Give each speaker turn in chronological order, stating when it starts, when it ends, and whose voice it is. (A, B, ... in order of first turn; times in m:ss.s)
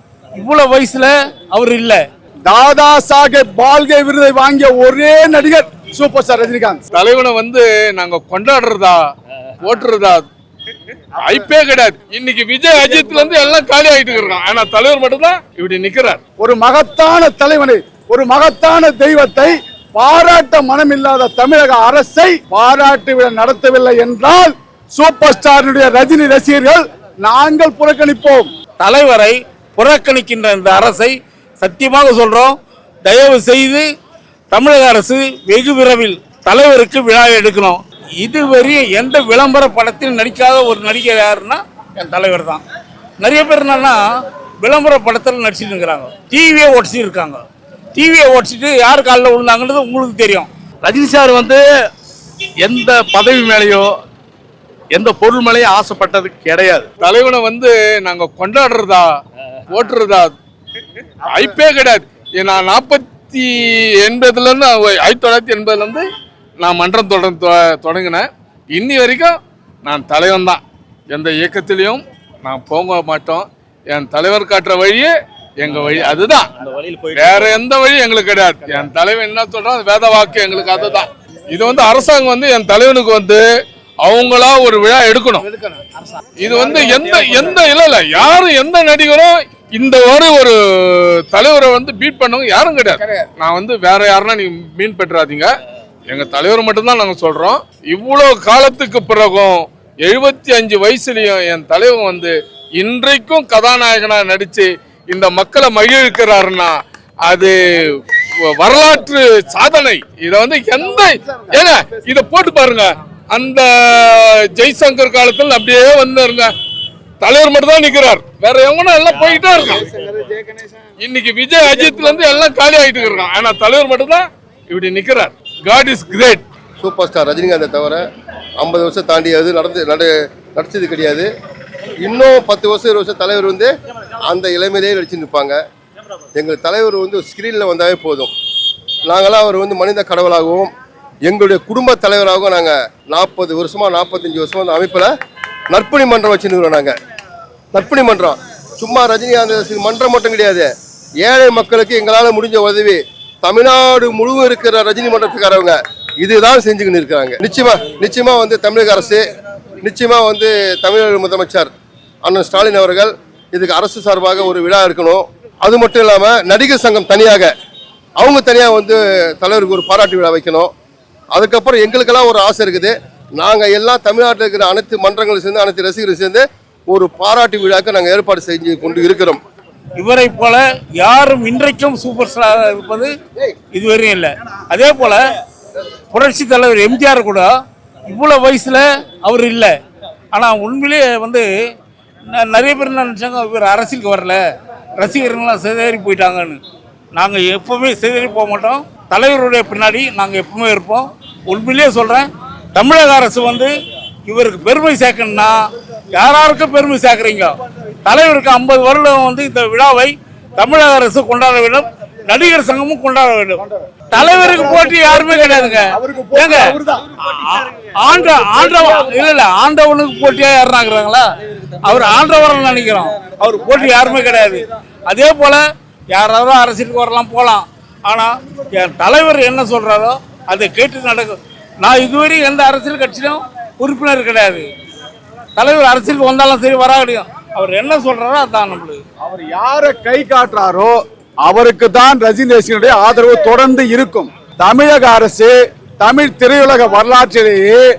0:00.4-0:02.0 A
0:02.5-0:06.8 B
0:07.0-0:09.0 C
0:09.6-0:10.3 C
0:11.2-0:16.2 C
0:16.4-0:28.5 B
0:28.8-0:33.9 A
0:34.5-0:42.6 A
0:43.2-0:44.0 A
0:44.6-0:47.4 A
0:48.0-0:50.5 A
0:50.8-0:51.6 D
0:52.6-0:53.9 D
0:54.9-0:56.9 D
0:57.0-0:59.0 C
0:59.7-1:00.3 C
1:01.3-1:06.0 C
1:06.6-1:16.5 C
1:17.1-1:23.4 C
1:24.0-1:25.5 C
1:26.4-1:35.4 C
1:36.1-1:46.7 C
1:47.3-1:47.5 C
1:48.6-1:56.5 C
1:57.2-1:59.8 C
2:01.0-2:06.4 C
2:06.8-2:08.0 E
2:08.6-2:11.3 E
2:12.0-2:15.6 E
2:16.4-2:18.3 E
2:19.1-2:20.7 E
2:21.2-2:25.1 E
2:25.7-2:27.0 E
2:27.7-2:30.7 E
2:31.2-2:39.3 E
2:39.8-2:41.7 E
2:42.2-2:47.5 E
2:48.2-2:50.7 E
2:51.3-2:59.4 E
3:00.0-3:03.1 A
3:03.7-3:05.2 A
3:06.1-3:07.5 A
3:08.1-3:09.8 A
3:10.3-3:11.5 A
3:12.3-3:14.4 A
3:15.0-3:16.6 A
3:17.2-3:23.7 A
3:24.3-3:36.7 A
3:34.1-3:37.0 B
3:37.2-3:41.3 A
3:41.8-3:45.6 A
3:46.1-3:54.7 A
3:55.6-3:59.0 A
3:59.2-4:07.8 B